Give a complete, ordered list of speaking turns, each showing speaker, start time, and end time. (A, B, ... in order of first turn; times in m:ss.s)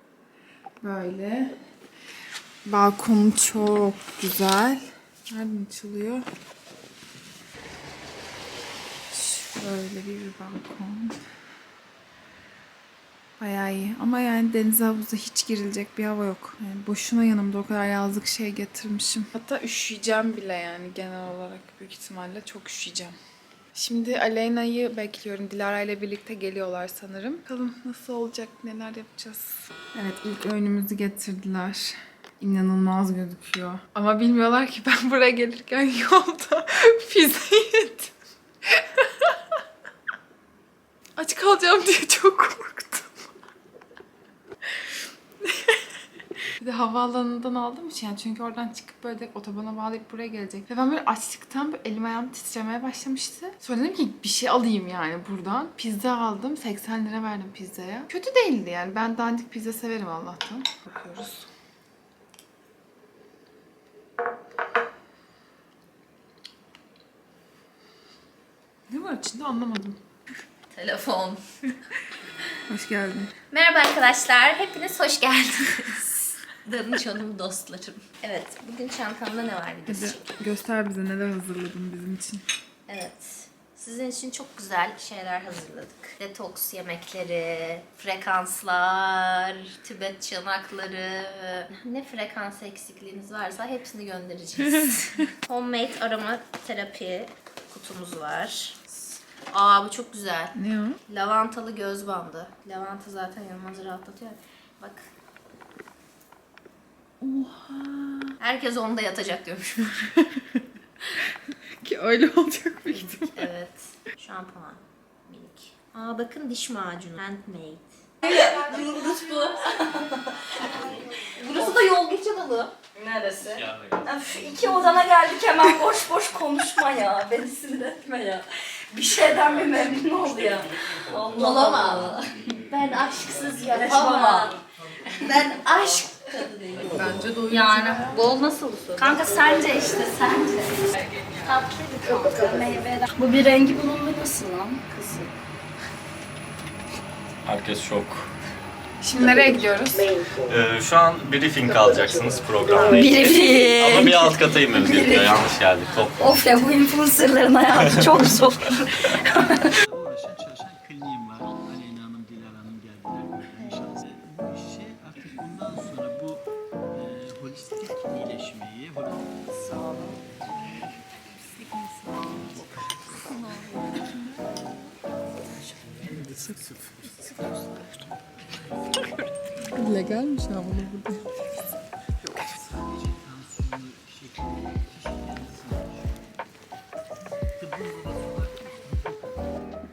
0:00.8-0:01.6 A
0:02.6-0:06.3 A
0:09.1-0:11.2 A
0:13.4-0:23.2 A
0:23.8-0:38.1 A
0:38.8-0:39.4 A
0:41.2-0:43.3 A
0:45.4-0:45.8 A
0:46.6-1:01.5 A
1:08.9-1:10.0 A
1:10.7-1:11.4 B
1:12.7-1:13.3 A
1:13.5-1:20.4 B
1:19.9-1:22.4 A
1:22.9-1:38.8 B
1:39.5-1:45.1 B
1:40.6-1:41.0 A
1:47.2-1:48.4 A
1:48.4-1:50.1 B
1:51.8-1:53.5 A
1:52.9-1:58.1 B
1:58.2-2:12.5 C
2:00.7-2:02.7 B
2:03.5-2:04.1 D
2:11.4-2:14.6 B
2:13.7-2:14.6 C
2:15.1-2:17.2 B
2:15.2-2:15.5 C
2:17.5-2:24.8 C
2:18.1-2:19.6 B
2:27.4-2:28.3 D
2:29.0-2:30.2 A
2:30.5-2:36.3 D
2:32.7-2:39.7 C
2:35.8-2:36.1 B
2:40.0-2:50.0 E
2:56.1-2:57.2 E
2:59.6-3:01.4 A
3:02.8-3:06.2 E
3:07.6-3:09.5 E